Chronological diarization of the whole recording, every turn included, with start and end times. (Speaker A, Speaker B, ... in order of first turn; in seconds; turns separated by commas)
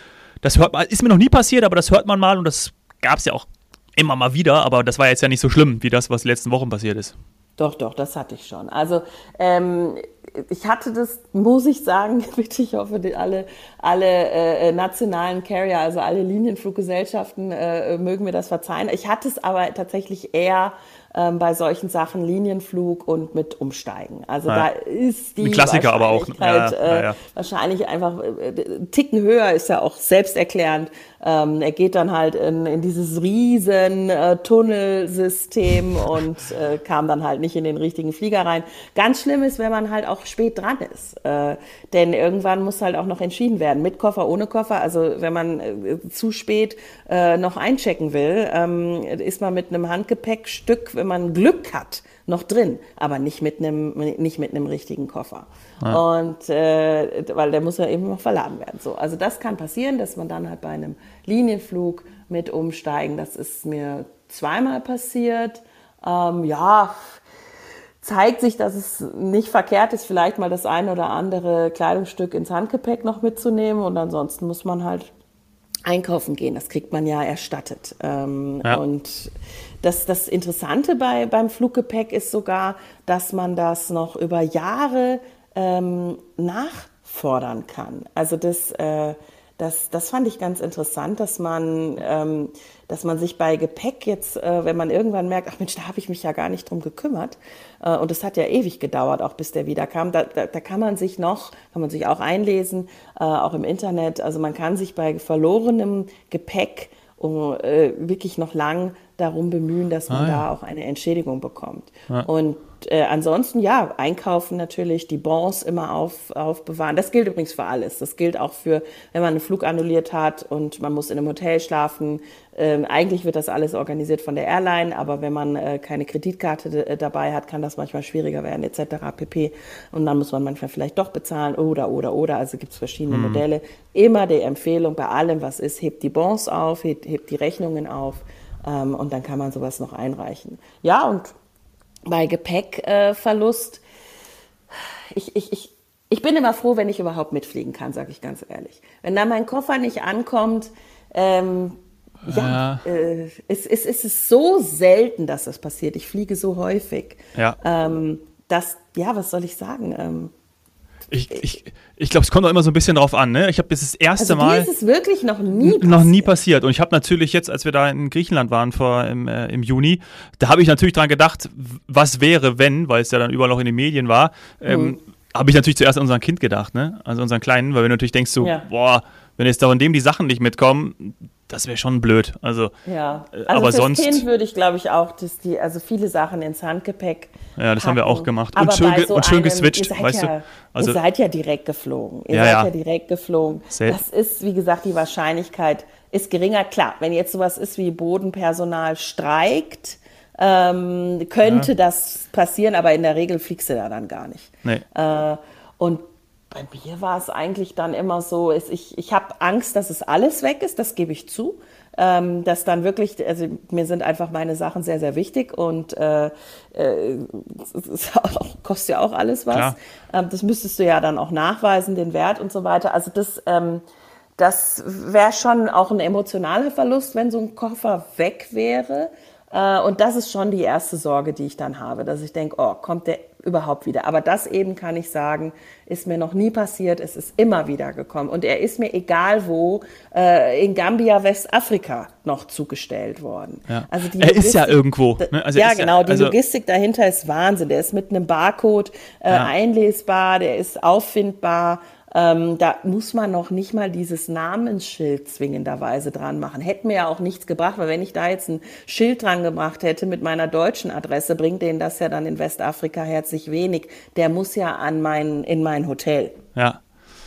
Speaker A: 0.4-7.1, Speaker B: 7.6-67.2, Speaker A: 25.4-27.2, Speaker B: 68.0-75.1, Speaker B: 75.9-141.3, Speaker A: 110.1-110.4, Speaker A: 133.1-133.4, Speaker B: 142.1-143.8, Speaker B: 145.1-160.3, Speaker A: 152.2-152.8, Speaker A: 161.1-164.7, Speaker B: 164.2-166.3, Speaker A: 165.6-182.7, Speaker B: 174.7-175.0, Speaker B: 178.4-178.7, Speaker B: 182.8-223.8, Speaker A: 183.3-184.2, Speaker A: 187.6-191.0, Speaker A: 192.3-192.7, Speaker A: 193.7-194.0, Speaker A: 201.4-201.7, Speaker B: 224.4-266.4, Speaker A: 243.7-246.3, Speaker A: 266.5-266.8